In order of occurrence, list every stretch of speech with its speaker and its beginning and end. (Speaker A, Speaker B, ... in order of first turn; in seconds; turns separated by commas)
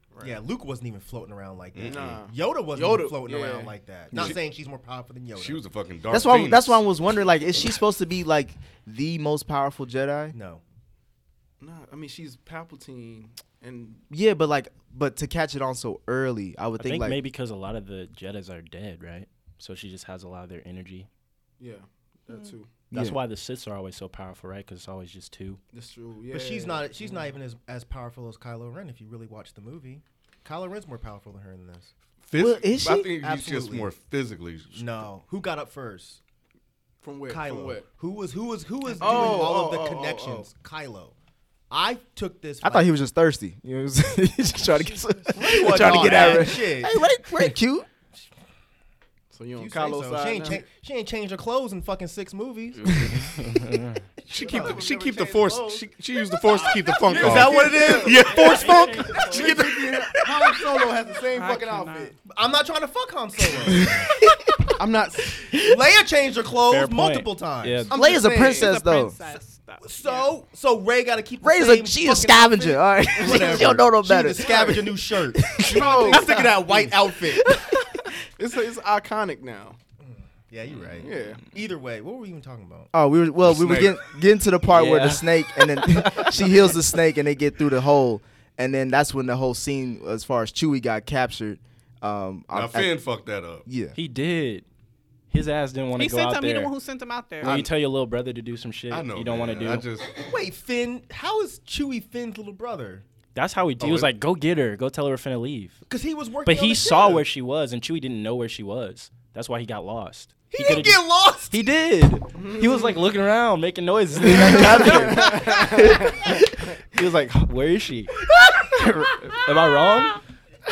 Speaker A: 0.1-0.4, Speaker B: 0.2-5.7, Speaker C: 1.7-2.2, Speaker A: 1.8-3.7, Speaker C: 5.3-6.8, Speaker D: 6.1-10.3, Speaker B: 10.3-10.6, Speaker A: 11.6-14.0, Speaker D: 14.1-17.2, Speaker E: 16.8-21.1, Speaker A: 21.6-22.7, Speaker D: 22.9-23.2, Speaker E: 22.9-25.6, Speaker A: 25.7-27.3, Speaker B: 26.3-31.9, Speaker C: 32.2-35.0, Speaker D: 32.4-33.1, Speaker B: 33.0-33.9, Speaker B: 34.7-36.2, Speaker A: 37.0-37.9, Speaker B: 37.3-41.1, Speaker A: 39.0-40.5, Speaker B: 41.7-42.9, Speaker D: 42.6-47.9, Speaker B: 45.3-47.1, Speaker A: 45.5-46.4, Speaker A: 49.3-50.6, Speaker B: 49.5-53.4, Speaker E: 53.0-54.0, Speaker B: 54.2-59.6, Speaker C: 54.3-58.8, Speaker A: 54.4-55.4, Speaker A: 57.0-62.1, Speaker E: 58.2-59.5, Speaker D: 59.4-60.0, Speaker F: 61.3-62.1, Speaker B: 62.3-64.1, Speaker D: 63.6-64.7, Speaker A: 64.8-65.4, Speaker D: 65.4-65.8, Speaker B: 65.5-68.3, Speaker E: 66.7-68.0, Speaker A: 67.9-68.7, Speaker D: 67.9-69.1, Speaker F: 68.4-70.3, Speaker B: 69.8-77.5, Speaker D: 71.4-76.3, Speaker A: 73.2-73.6, Speaker A: 75.6-76.9, Speaker D: 77.3-78.1, Speaker A: 78.4-79.8, Speaker B: 80.0-82.9, Speaker A: 81.0-81.4, Speaker D: 82.9-93.0, Speaker C: 83.4-84.0, Speaker E: 84.7-86.5, Speaker C: 92.5-93.6, Speaker D: 93.7-94.0, Speaker E: 93.9-94.7, Speaker E: 95.3-96.7, Speaker F: 96.0-97.6, Speaker E: 97.4-99.8, Speaker C: 97.4-97.7, Speaker C: 98.9-100.1, Speaker B: 100.2-103.0, Speaker E: 103.3-105.8, Speaker C: 103.8-104.1, Speaker B: 105.9-107.2, Speaker E: 106.4-120.2, Speaker B: 110.5-111.6, Speaker A: 112.3-112.9, Speaker D: 114.2-115.6, Speaker A: 115.2-116.0